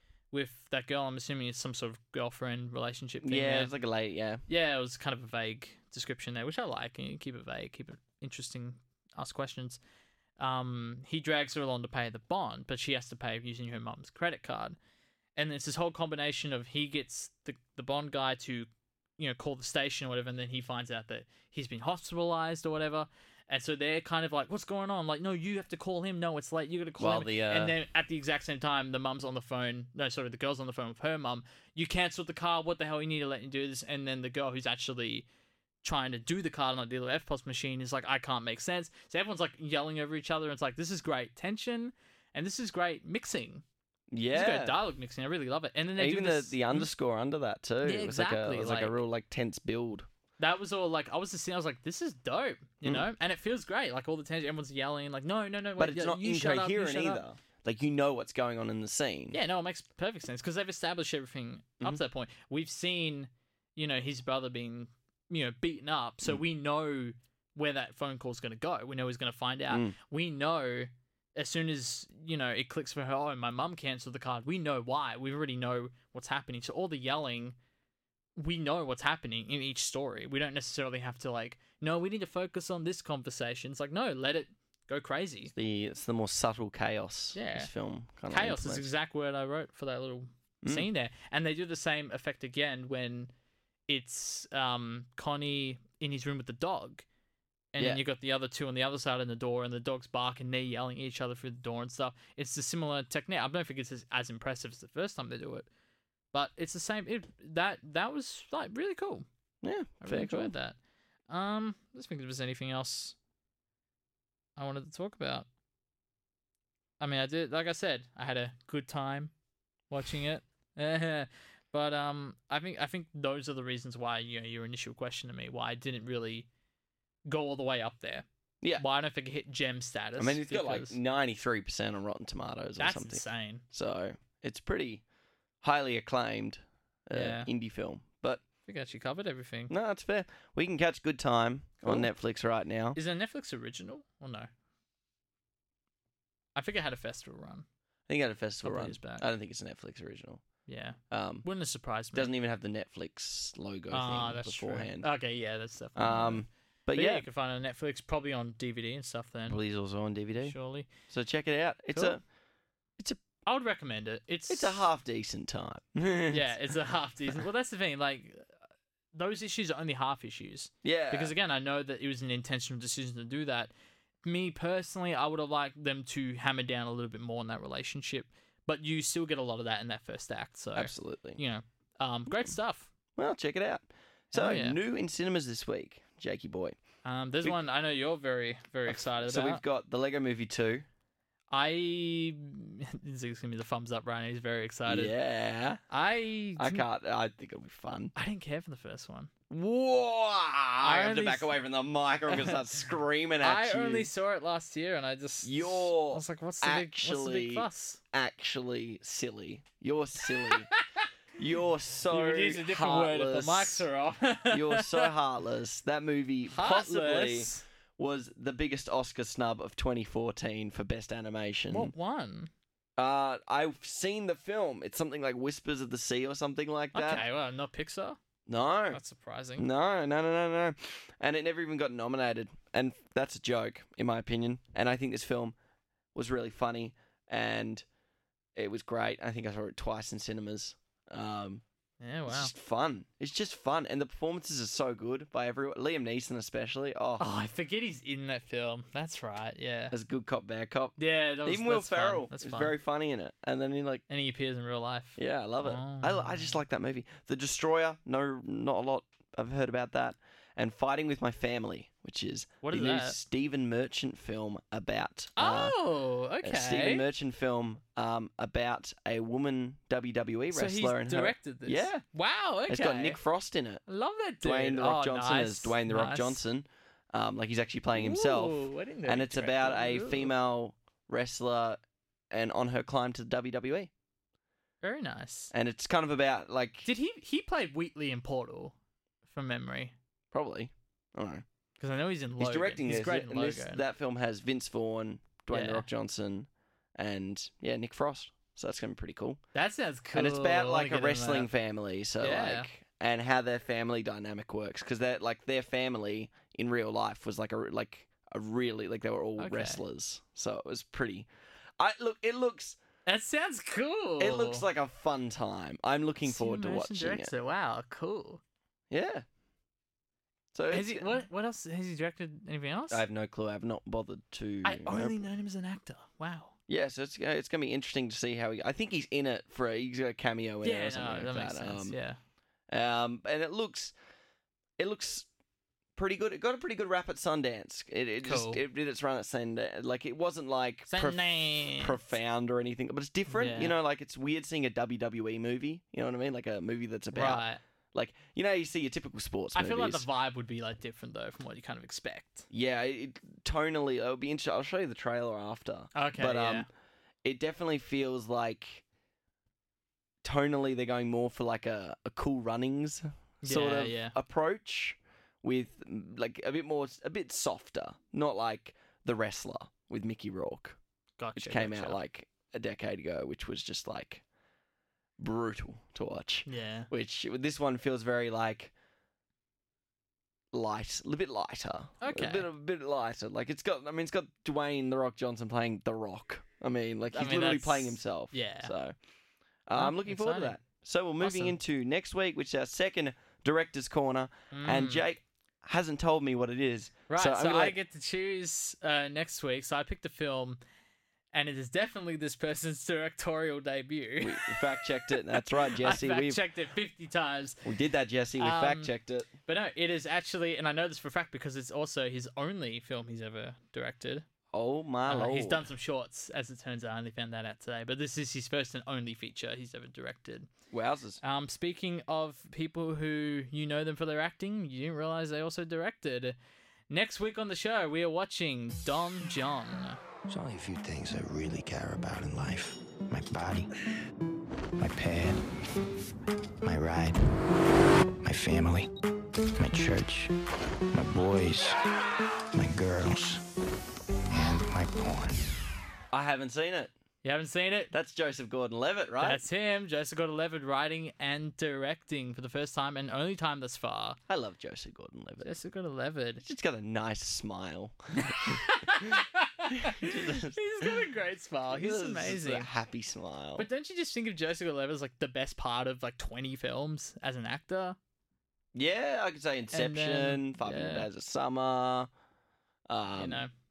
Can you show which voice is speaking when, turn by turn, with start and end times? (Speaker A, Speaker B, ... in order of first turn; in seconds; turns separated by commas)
Speaker A: 0.3-3.7, Speaker B: 3.2-4.4, Speaker A: 4.5-9.8, Speaker A: 10.4-14.8, Speaker A: 15.3-35.2, Speaker B: 27.0-27.7, Speaker A: 35.8-43.6, Speaker B: 44.1-44.8, Speaker A: 44.3-46.9, Speaker B: 46.0-50.1, Speaker A: 47.8-49.0, Speaker A: 50.4-57.2, Speaker B: 55.8-59.4, Speaker A: 59.3-77.5, Speaker B: 69.7-70.0, Speaker A: 78.4-85.5, Speaker B: 85.5-88.9, Speaker A: 87.3-87.7, Speaker A: 88.3-93.3, Speaker A: 93.9-97.0, Speaker A: 97.7-105.7, Speaker A: 106.3-109.2, Speaker B: 109.6-110.5, Speaker A: 110.0-110.8, Speaker A: 111.3-113.2, Speaker A: 114.5-115.5, Speaker A: 117.0-119.3, Speaker A: 119.9-126.5, Speaker A: 127.2-128.2, Speaker A: 128.8-130.9, Speaker B: 130.2-135.0, Speaker A: 132.8-133.6, Speaker B: 135.6-138.4, Speaker A: 137.1-137.5, Speaker A: 138.7-139.7, Speaker B: 139.7-143.0, Speaker A: 141.8-142.1, Speaker A: 142.9-144.5, Speaker A: 146.5-147.7, Speaker B: 148.1-150.4, Speaker A: 148.6-149.2, Speaker A: 150.7-152.3, Speaker B: 151.1-151.4, Speaker B: 152.1-155.1, Speaker A: 153.9-159.6, Speaker B: 155.9-157.2, Speaker B: 159.5-162.2, Speaker A: 160.4-160.9, Speaker A: 163.4-164.9, Speaker B: 164.5-166.5, Speaker A: 166.3-168.5, Speaker A: 169.1-173.7, Speaker B: 170.8-171.3, Speaker A: 174.2-182.9, Speaker B: 180.7-181.4, Speaker B: 183.2-186.8, Speaker A: 184.3-184.8, Speaker A: 187.0-189.6, Speaker B: 188.8-190.8, Speaker A: 191.5-195.1, Speaker B: 194.9-195.8, Speaker A: 195.9-196.8, Speaker B: 196.6-198.1, Speaker A: 198.1-199.3, Speaker B: 199.5-204.1, Speaker A: 200.8-201.5, Speaker A: 202.3-202.6, Speaker A: 203.4-208.0, Speaker B: 205.4-210.7, Speaker A: 210.4-211.1, Speaker B: 211.4-213.8, Speaker A: 212.1-215.1, Speaker B: 214.5-221.9, Speaker A: 216.5-217.6, Speaker A: 221.7-222.5, Speaker B: 223.0-227.2, Speaker A: 226.9-228.2, Speaker B: 228.5-229.0, Speaker A: 228.9-229.7, Speaker B: 229.6-235.5, Speaker B: 236.1-237.8, Speaker B: 238.5-241.6, Speaker A: 242.0-242.5, Speaker B: 242.3-247.2, Speaker A: 247.2-249.9, Speaker B: 249.9-254.0, Speaker A: 251.0-252.7, Speaker A: 254.1-256.6, Speaker B: 255.2-265.8, Speaker A: 262.6-263.2, Speaker A: 265.4-267.0, Speaker B: 266.4-272.0, Speaker A: 270.5-273.2, Speaker B: 272.7-273.8, Speaker A: 273.9-276.4, Speaker B: 274.4-281.8, Speaker A: 277.9-280.3, Speaker B: 282.3-283.9, Speaker A: 284.8-285.5, Speaker B: 285.5-286.9, Speaker A: 286.8-288.7, Speaker A: 289.3-289.9, Speaker B: 290.3-291.4, Speaker A: 291.8-293.8, Speaker B: 292.4-299.4, Speaker A: 295.5-295.9, Speaker A: 299.5-301.5, Speaker B: 300.1-312.8, Speaker A: 302.2-302.7, Speaker A: 309.4-309.8, Speaker A: 313.1-314.6, Speaker B: 314.2-317.3, Speaker A: 316.2-318.4, Speaker B: 318.9-319.2, Speaker B: 320.5-321.2, Speaker A: 320.7-323.0, Speaker B: 322.9-325.2, Speaker A: 324.6-326.5, Speaker B: 326.7-331.9, Speaker A: 330.6-332.2, Speaker B: 332.7-333.9, Speaker B: 334.8-335.3, Speaker B: 335.9-350.1, Speaker A: 338.2-338.6, Speaker A: 340.9-342.0, Speaker A: 343.3-343.7, Speaker A: 347.1-347.6, Speaker A: 349.5-352.5, Speaker B: 352.5-356.7, Speaker A: 355.9-356.7, Speaker B: 357.2-358.8, Speaker B: 360.2-370.8, Speaker A: 363.4-364.1, Speaker A: 371.2-372.0, Speaker B: 371.3-374.2, Speaker B: 375.2-378.7, Speaker A: 376.4-376.9, Speaker B: 380.5-388.9, Speaker A: 382.0-382.5, Speaker A: 387.1-388.7, Speaker B: 389.7-397.8, Speaker A: 389.7-390.6, Speaker A: 391.2-391.5, Speaker A: 394.5-395.0, Speaker A: 397.1-400.6, Speaker A: 401.3-407.7, Speaker B: 404.2-406.4, Speaker B: 407.6-409.3, Speaker A: 408.4-408.9, Speaker A: 409.4-414.2, Speaker B: 414.5-415.7, Speaker A: 415.1-420.5, Speaker B: 420.7-421.2, Speaker A: 421.2-426.4, Speaker A: 426.9-430.0, Speaker C: 430.3-433.7, Speaker C: 434.8-435.4, Speaker C: 436.6-437.4, Speaker C: 438.2-438.9, Speaker C: 439.5-440.3, Speaker C: 440.9-441.8, Speaker C: 442.5-443.4, Speaker C: 444.3-445.4, Speaker B: 446.1-446.9, Speaker A: 447.2-447.9, Speaker B: 447.9-449.4, Speaker A: 449.2-454.2, Speaker B: 454.3-455.5, Speaker A: 455.4-456.4, Speaker B: 456.4-459.2, Speaker A: 458.2-462.7, Speaker B: 459.7-461.0, Speaker B: 461.7-463.7, Speaker A: 463.6-468.0, Speaker B: 468.7-472.1, Speaker A: 469.7-471.1, Speaker B: 472.9-473.4, Speaker A: 473.1-473.5